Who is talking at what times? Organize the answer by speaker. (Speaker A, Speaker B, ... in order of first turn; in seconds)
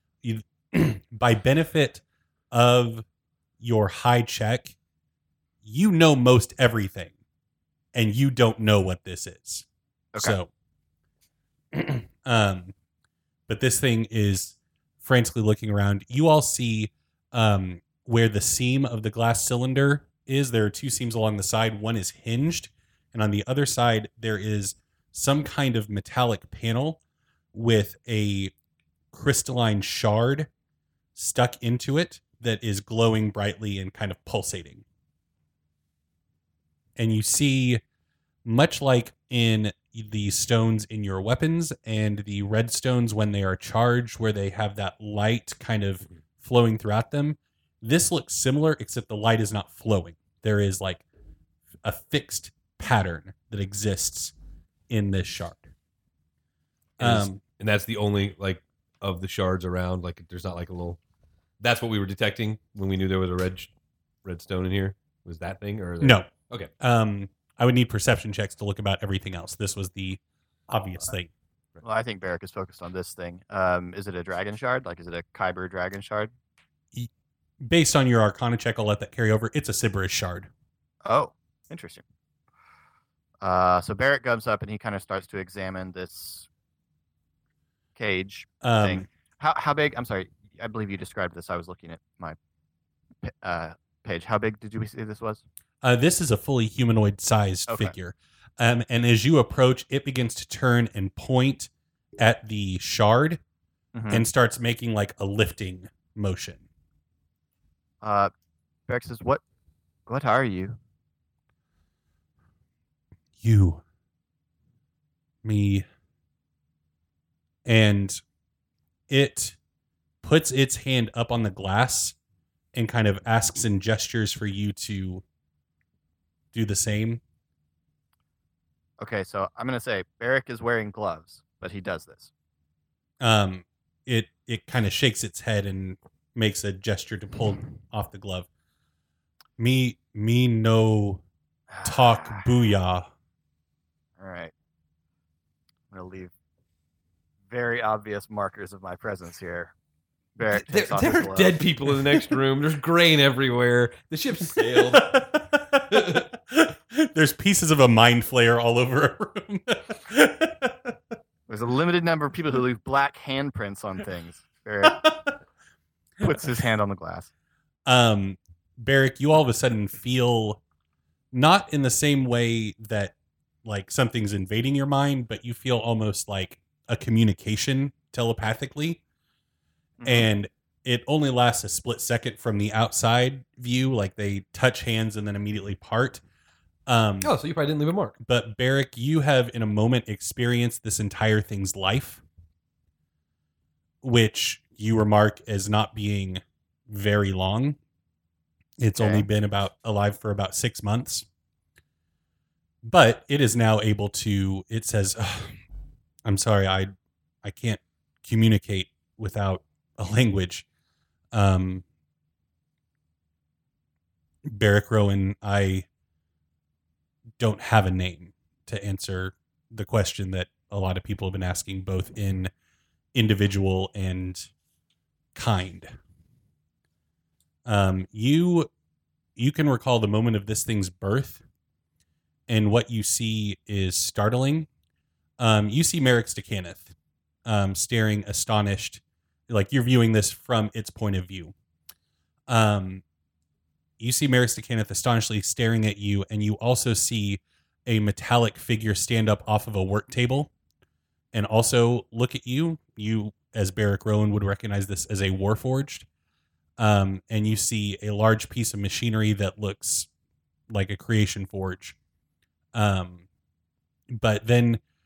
Speaker A: 0.2-3.0, 3.6-4.8, 5.6-7.1, 7.9-9.7, 10.2-10.5, 11.7-12.7, 13.5-27.0, 27.5-28.5, 29.1-30.5, 31.1-34.8, 37.0-37.8, 38.5-51.0, 51.8-54.3, 54.9-55.7, 57.0-57.4, 66.0-66.3, 66.8-71.3, 77.6-80.5, 88.6-89.1, 95.8-103.4, 104.1-106.7, 113.4-113.8, 115.4-115.8, 117.7-118.2, 119.1-119.6, 120.2-122.2, 122.7-125.2, 126.5-127.2, 133.2-138.5, 139.6-141.2, 141.8-143.1, 154.8-161.0, 164.9-165.3, 167.9-170.6, 171.3-173.1, 173.7-179.0, 180.1-186.2, 186.9-187.3, 188.2-192.2, 194.0-197.8, 198.8-201.3, 202.8-205.6, 206.2-206.9, 207.4-210.7, 211.3-211.8, 214.5-215.9, 217.4-222.5, 223.1-224.5, 225.3-225.9, 227.7-228.7, 229.4-231.4, 232.5-234.7, 235.4-236.9, 237.5-241.5, 242.5-243.0, 244.0-250.5, 251.3-256.1, 256.8-260.1, 260.7-262.0, 262.7-263.2, 264.1-264.8
Speaker B: 57.0-61.0, 61.6-63.7, 64.2-66.7, 150.5-155.3, 155.9-156.2, 187.2-188.2
Speaker C: 71.8-76.3, 81.0-82.0, 83.4-86.5, 88.0-92.4, 93.2-95.4, 97.7-97.9, 103.9-104.2, 108.0-108.3, 108.9-109.4, 110.1-110.8, 129.0-132.3, 141.7-142.5, 144.2-144.5, 145.9-146.3, 147.5-149.7, 150.4-151.6, 161.5-165.0, 166.2-167.3, 180.0-180.3, 199.0-199.3